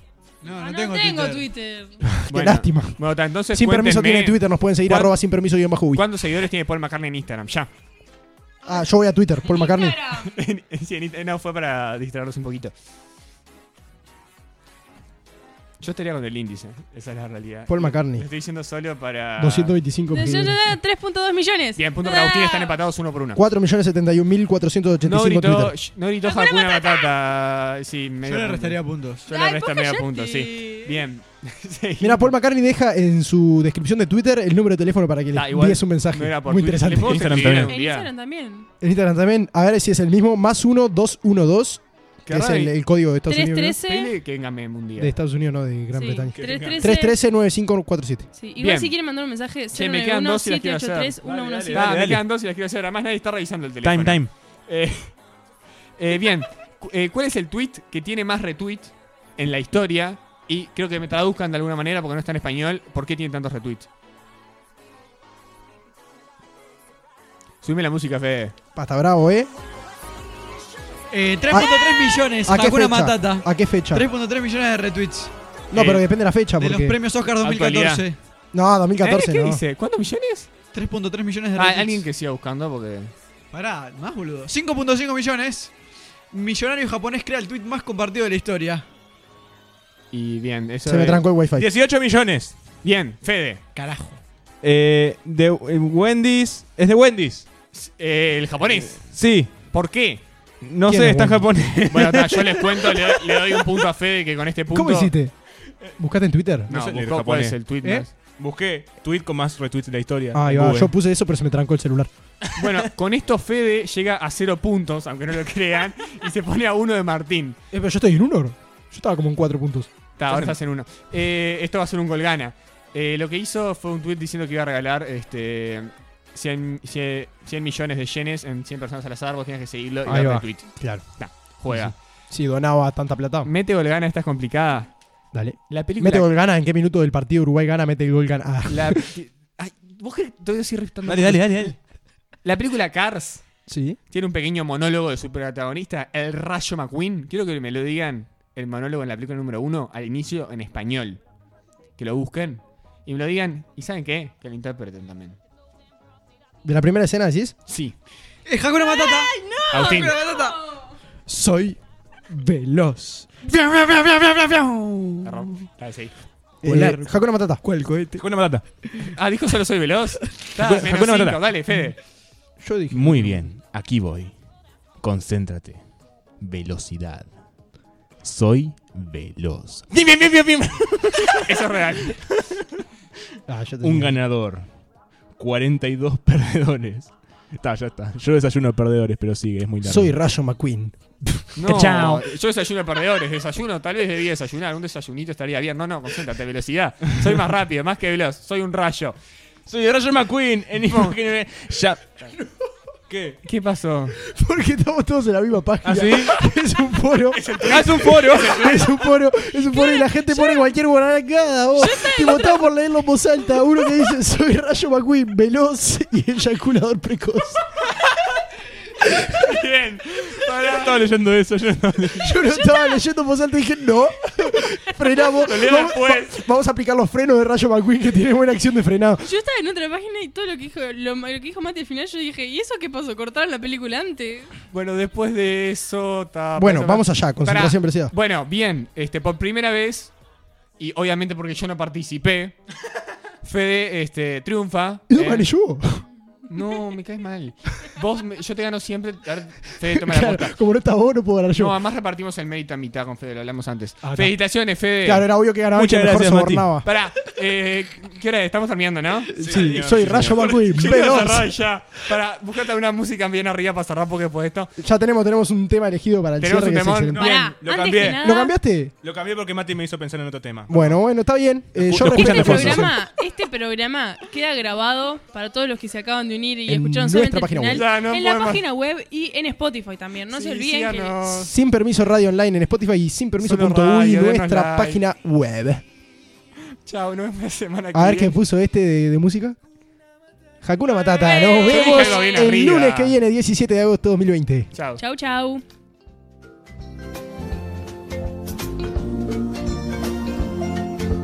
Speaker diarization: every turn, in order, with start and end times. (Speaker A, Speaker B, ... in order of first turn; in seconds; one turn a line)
Speaker A: 0.4-1.5
Speaker B: 0.5-2.0
Speaker C: 2.3-3.0
Speaker D: 2.3-5.2
Speaker C: 3.5-6.0
Speaker D: 5.9-7.7
Speaker C: 8.6-10.0
Speaker B: 9.4-10.3
Speaker D: 10.2-12.7
Speaker D: 15.8-19.8
Speaker C: 17.7-18.3
Speaker C: 19.4-20.8
Speaker B: 20.1-22.8
Speaker D: 21.8-23.4
Speaker C: 23.3-25.7
Speaker D: 25.0-32.3
Speaker B: 26.2-27.1
Speaker A: 28.2-29.2
Speaker B: 29.3-30.9
Speaker C: 32.0-37.5
Speaker D: 35.3-38.1
Speaker E: 37.0-37.7
Speaker B: 37.6-38.7
Speaker C: 38.8-43.8
Speaker D: 42.2-42.7
Speaker B: 43.3-44.1
Speaker D: 43.8-45.1
Speaker C: 45.0-48.3
Speaker B: 45.9-47.1
Speaker E: 46.3-46.8
Speaker B: 48.3-51.9
Speaker D: 48.6-48.9
Speaker D: 49.7-51.2
Speaker E: 51.2-52.2
Speaker D: 51.7-55.2
Speaker E: 53.8-54.4
Speaker D: 56.0-63.9
Speaker D: 67.6-68.5
Speaker C: 68.8-69.5
Speaker A: 71.1-75.3
Speaker C: 71.5-71.8
Speaker C: 72.4-74.1
Speaker C: 75.7-77.0
Speaker D: 75.7-76.0
Speaker A: 76.6-78.2
Speaker D: 77.4-78.0
Speaker C: 78.5-79.6
Speaker D: 79.0-80.5
Speaker A: 80.7-82.0
Speaker D: 81.5-83.1
Speaker A: 83.5-85.7
Speaker A: 86.3-88.9
Speaker D: 90.1-91.2
Speaker C: 90.8-91.7
Speaker E: 91.6-92.6
Speaker D: 92.8-93.6
Speaker A: 93.7-94.2
Speaker E: 94.6-97.5
Speaker D: 97.7-100.2
Speaker E: 98.7-99.7
Speaker E: 100.6-103.0
Speaker C: 100.9-101.7
Speaker D: 101.7-105.1
Speaker C: 104.7-106.7
Speaker D: 106.7-108.1
Speaker E: 106.7-110.9
Speaker C: 110.3-112.1
Speaker D: 112.5-117.6
Speaker C: 117.7-120.5
Speaker D: 120.2-132.0
Speaker C: 130.1-133.5
Speaker D: 133.4-135.1
Speaker C: 135.3-139.0
Speaker D: 135.7-136.3
Speaker D: 138.7-141.8
Speaker E: 141.0-141.8
Speaker D: 142.4-151.2
Speaker C: 143.7-144.0
Speaker D: 152.0-155.4
Speaker C: 156.6-157.5
Speaker D: 157.7-157.9
Speaker A: 158.4-165.5
Speaker B: 158.8-160.9
Speaker D: 159.7-160.1
Speaker D: 165.2-166.2
Speaker C: 166.6-167.6
Speaker A: 166.6-167.1
Speaker A: 167.6-169.1
Speaker E: 168.2-168.7
Speaker D: 169.2-172.0
Speaker E: 170.6-171.5
Speaker C: 172.6-173.5
Speaker E: 172.9-177.4
Speaker E: 178.2-181.6
Speaker D: 181.2-182.4
Speaker C: 183.5-184.2
Speaker E: 183.8-184.7
Speaker E: 185.3-190.1
Speaker C: 189.8-192.0
Speaker D: 191.6-199.2
Speaker E: 191.7-192.2
Speaker E: 199.7-202.3
Speaker D: 200.8-201.2
Speaker E: 203.1-203.4
Speaker D: 203.4-204.2
Speaker C: 204.2-217.6
Speaker E: 205.8-206.4
Speaker D: 207.3-208.8
Speaker E: 207.5-208.8
Speaker B: 209.7-210.7
Speaker B: 211.8-212.7
Speaker D: 219.1-221.0
Speaker E: 220.7-222.3
Speaker C: 222.2-229.3
Speaker B: 222.5-223.0
Speaker D: 225.4-226.4
Speaker B: 229.2-234.5
Speaker D: 234.7-240.2
Speaker C: 236.6-238.1
Speaker D: 240.8-242.6
Speaker D: 243.4-245.5
Speaker C: 245.1-246.0
Speaker D: 246.5-250.6
Speaker C: 250.0-251.8
Speaker D: 251.5-255.3
Speaker C: 254.0-254.5
Speaker C: 255.0-256.9
Speaker E: 255.7-256.8
Speaker D: 256.8-259.4
Speaker E: 259.4-261.1
Speaker A: 259.4-259.7
Speaker C: 259.4-261.5
Speaker D: 260.3-264.7
Speaker C: 264.8-267.2
Speaker D: 266.4-267.6
Speaker E: 267.1-268.2
Speaker B: 267.2-268.5
Speaker C: 268.0-268.9
Speaker E: 269.0-271.0
Speaker C: 270.7-272.9
Speaker E: 271.7-272.9
Speaker B: 272.0-281.1
Speaker C: 276.7-277.9
Speaker D: 277.7-278.6
Speaker D: 280.3-281.5
Speaker C: 281.2-285.8
Speaker D: 283.4-285.0
Speaker D: 286.9-288.3
Speaker C: 287.9-289.6
Speaker C: 290.6-294.7
Speaker B: 291.1-292.4
Speaker D: 291.7-293.1
Speaker D: 294.7-295.0
Speaker B: 295.0-295.6